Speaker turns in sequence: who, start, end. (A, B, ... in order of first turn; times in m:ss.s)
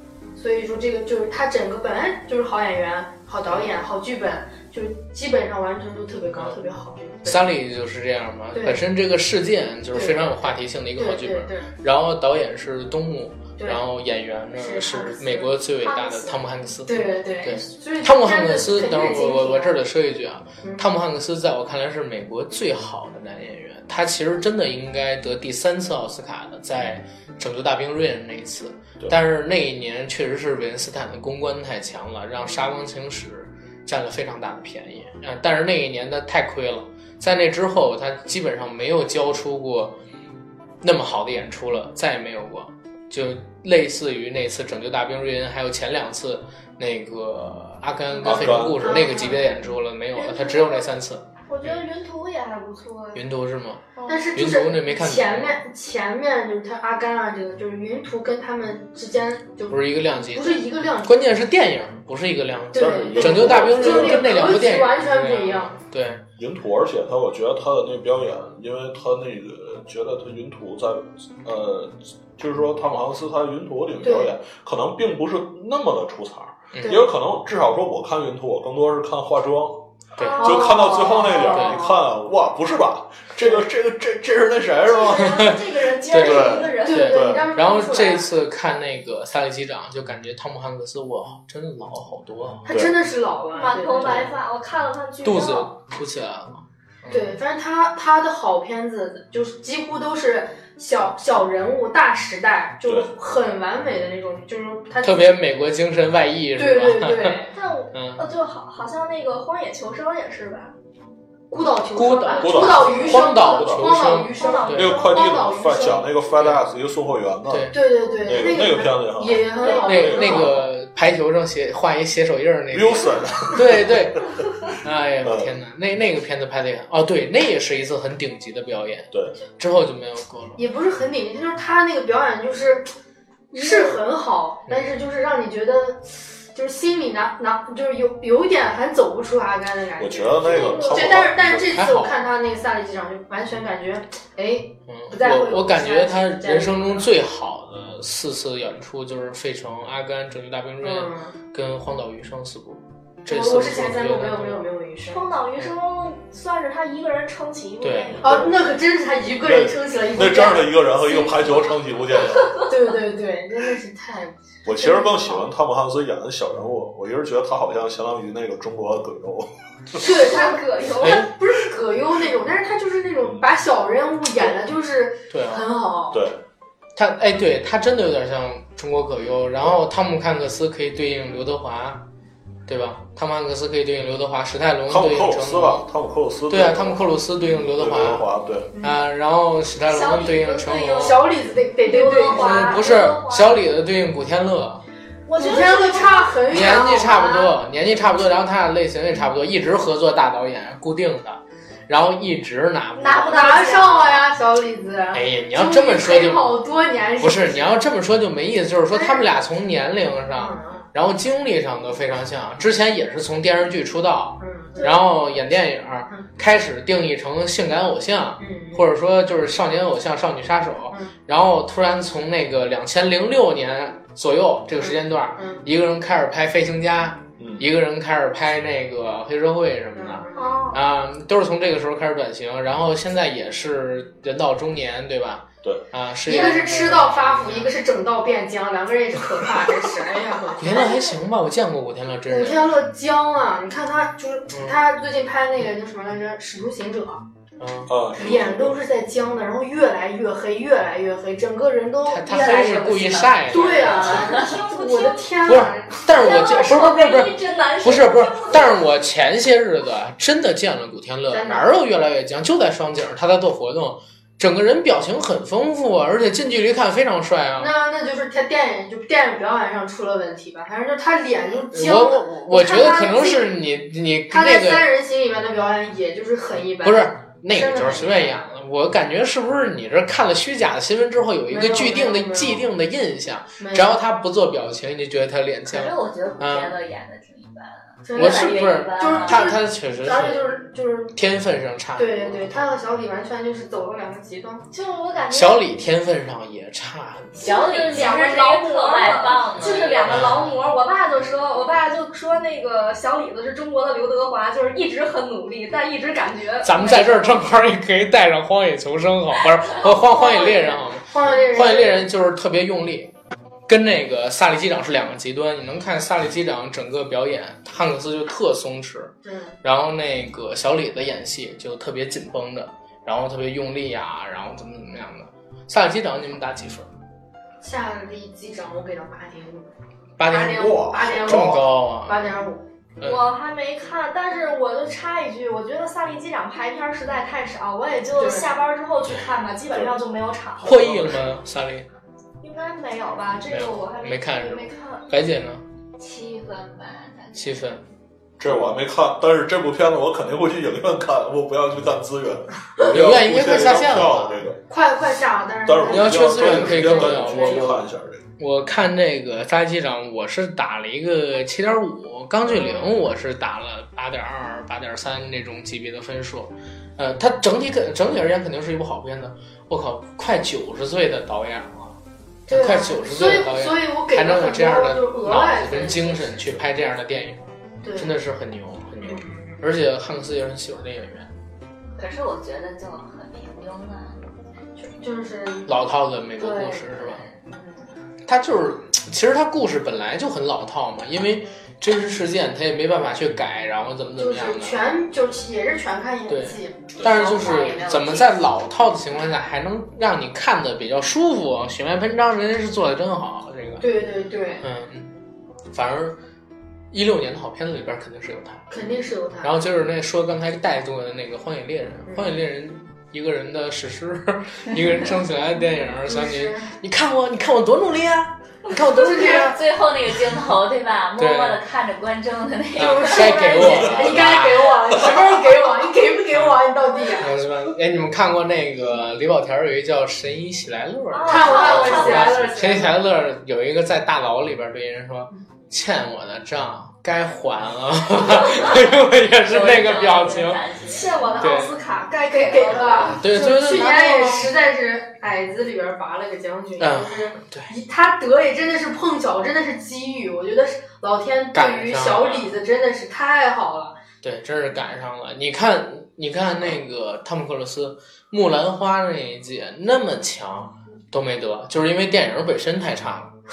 0:00.4-0:07.5 A
0:03.5-0:03.7 B
0:06.3-0:06.6 B
0:07.2-0:40.0 B
0:08.5-0:08.8 A
0:09.9-0:11.7 A
0:14.5-0:15.6 A
0:15.8-0:16.4 C
0:16.8-0:19.8 A
0:20.6-0:20.9 A
0:40.8-0:51.8 B
0:48.2-0:49.0 D
0:48.3-0:49.5 A
0:50.1-0:50.9 C
0:51.5-0:53.2 C
0:53.1-0:55.6 B
0:53.9-0:54.6 C
0:54.1-1:01.2 A
0:59.7-1:06.2 B
1:02.7-1:05.7 A
1:02.7-1:04.6 D
1:06.4-1:25.4 D
1:14.0-1:14.3 A
1:16.7-1:17.0 B
1:16.8-1:17.0 A
1:20.2-1:20.7 B
1:20.2-1:21.3 C
1:20.3-1:22.0 A
1:21.4-1:21.8 B
1:24.8-1:27.1 C
1:26.1-1:32.6 B
1:26.2-1:27.5 D
1:26.8-1:28.3 A
1:32.7-1:34.3 A
1:32.7-1:33.0 D
1:33.5-1:35.7 C
1:34.0-1:34.3 B
1:35.2-1:37.4 B
1:37.1-1:45.3 A
1:42.8-1:43.1 D
1:45.0-1:48.2 B
1:46.6-1:47.5 A
1:47.5-1:50.7 C
1:51.5-1:56.1 A
1:51.9-1:54.9 B
1:52.3-1:53.2 C
1:52.3-1:54.1 D
1:54.2-1:56.1 C
1:54.7-2:00.6 D
1:56.3-1:56.6 B
1:57.5-1:57.8 B
1:57.7-2:00.5 A
1:59.4-2:00.4 C
1:59.8-2:10.6 B
2:02.7-2:04.1 D
2:05.2-2:05.5 D
2:10.6-2:12.9 A
2:13.5-2:27.1 A
2:13.6-2:13.9 C
2:14.7-2:15.0 B
2:20.0-2:21.9 D
2:20.4-2:21.2 C
2:21.7-2:22.2 B
2:24.9-2:34.7 B
2:30.8-2:31.3 A
2:33.3-2:35.3 A
2:35.0-2:38.4 C
2:37.8-2:38.2 B
2:38.2-2:41.3 A
2:38.2-2:38.6 D
2:39.4-2:42.6 D
2:41.1-2:41.5 C
2:42.2-2:42.7 C
2:42.6-2:45.5 A
2:44.6-2:50.0 D
2:50.0-2:51.2 C
2:50.0-2:56.2 A
2:51.0-2:51.3 B
2:54.3-2:54.6 D
2:55.3-2:55.6 B
2:56.1-2:56.4 D
2:57.0-3:02.0 B
3:02.7-3:05.8 B
3:04.9-3:07.2 D
3:06.5-3:08.2 B
3:07.7-3:08.7 D
3:08.7-3:09.0 A
3:08.8-3:11.2 B
3:09.8-3:11.2 C
3:11.0-3:12.9 A
3:11.8-3:13.6 C
3:12.2-3:14.8 B
3:15.2-3:16.7 C
3:15.4-3:17.5 A
3:16.5-3:23.7 B
3:23.0-3:24.3 C
3:23.2-3:27.9 A
3:25.1-3:26.5 B
3:27.2-3:57.7 B
3:28.9-3:29.3 A
3:30.3-3:30.9 A
3:34.4-3:35.0 A
3:38.4-3:38.8 A
3:44.8-3:45.6 A
3:47.4-3:47.6 D
3:49.9-3:50.5 A
3:50.3-3:50.8 C
3:56.2-4:00.9 A
3:56.3-3:57.0 C
4:00.6-4:02.7 B
4:02.3-4:07.2 A
4:04.5-4:04.8 B
4:07.6-4:07.9 B
4:07.9-4:08.8 D
4:08.2-4:16.7 A
4:12.1-4:14.2 B
4:12.3-4:14.5 E
4:13.6-4:15.4 C
4:15.4-4:27.7 B
4:16.1-4:18.8 C
4:21.3-4:21.7 A
4:27.6-4:33.5 A
4:31.7-4:34.8 B
4:34.3-4:38.5 A
4:36.8-4:46.8 B
4:41.5-4:42.6 A
4:43.6-4:44.0 A
4:45.7-4:49.5 E
4:48.0-4:51.1 A
4:48.1-4:50.4 B
4:51.1-4:52.7 B
4:52.0-4:54.6 A
4:54.7-4:55.6 E
4:55.3-4:57.6 B
4:57.4-5:00.2 E
4:57.4-5:07.4 C
5:00.0-5:00.6 B
5:06.6-5:13.1 B
5:10.1-5:12.1 A
5:10.2-5:10.7 C
5:13.7-5:19.1 B
5:19.2-5:19.6 A
5:19.6-5:26.9 B
5:27.6-5:29.7 A
5:30.2-5:32.3 B
5:30.3-5:32.6 A
5:30.5-5:31.6 D
5:33.0-5:33.2 B
5:33.0-5:40.8 C
5:38.2-5:38.5 A
5:39.7-5:40.0 D
5:40.6-5:41.4 D
5:40.6-5:41.9 B
5:42.4-5:45.0 C
5:43.5-5:45.6 B
5:46.0-5:47.4 E
5:47.3-5:47.8 B
5:48.4-5:54.6 D
5:52.8-5:54.4 B
5:54.7-5:57.7 A
5:55.6-5:58.2 D
5:55.9-5:57.8 B
5:58.4-6:17.4 B
6:02.4-6:02.9 A
6:12.5-6:16.7 A
6:17.8-6:18.1 A
6:17.9-6:21.3 B
6:19.0-6:19.6 A
6:22.0-6:24.3 E
6:24.8-6:25.7 A
6:25.6-6:27.2 B
6:26.4-6:27.9 E
6:28.2-6:34.8 B
6:34.2-6:36.9 A
6:36.3-6:43.9 B
6:37.0-6:38.4 E
6:43.8-6:44.6 A
6:44.6-6:45.1 B
6:45.7-6:46.2 B
6:46.9-6:48.7 B
6:48.7-6:49.5 A
6:49.4-6:59.6 B
6:56.0-6:56.7 A
6:59.0-7:04.2 E
6:59.0-6:59.6 A
7:01.2-7:01.6 B
7:02.8-7:05.1 B
7:02.8-7:07.3 A
7:07.2-7:20.6 B
7:11.1-7:13.0 C
7:11.2-7:12.6 A
7:11.4-7:12.9 E
7:18.2-7:21.4 E
7:20.9-7:24.5 C
7:21.4-7:21.8 B
7:22.2-7:34.0 A
7:22.9-7:24.5 B
7:26.8-7:27.7 B
7:31.5-7:32.5 B
7:34.2-7:43.3 B